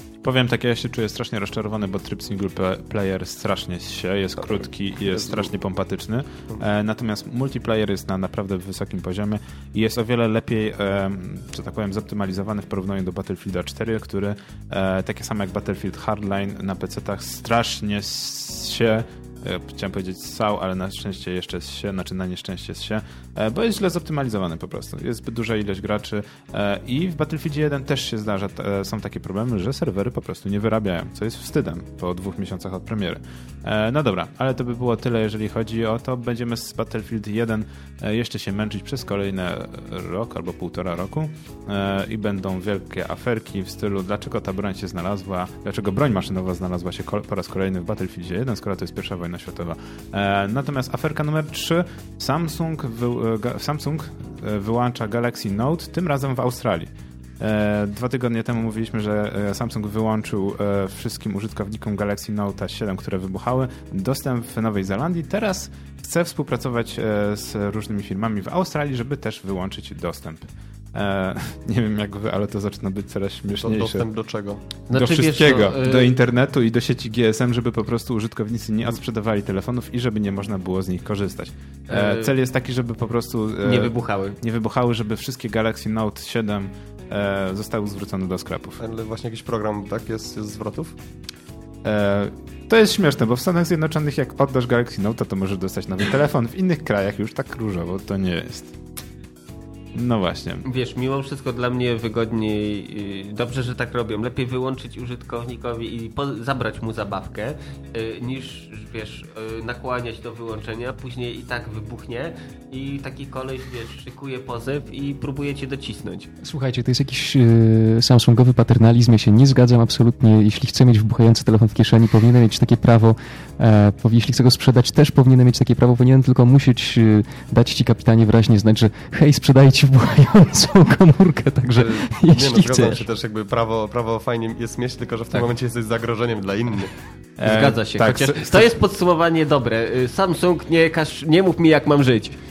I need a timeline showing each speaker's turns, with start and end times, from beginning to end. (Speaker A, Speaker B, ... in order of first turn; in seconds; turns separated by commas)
Speaker A: 0.2-74.1, Speaker B: 5.2-5.5, Speaker B: 73.5-74.6, Speaker C: 74.9-76.1, Speaker A: 74.9-88.8, Speaker C: 81.9-82.3, Speaker C: 83.6-84.4, Speaker B: 88.8-91.0, Speaker A: 91.8-98.8, Speaker A: 100.0-100.7, Speaker C: 100.6-116.3, Speaker D: 116.4-133.1, Speaker B: 131.8-136.9, Speaker A: 137.4-138.7, Speaker C: 137.4-142.4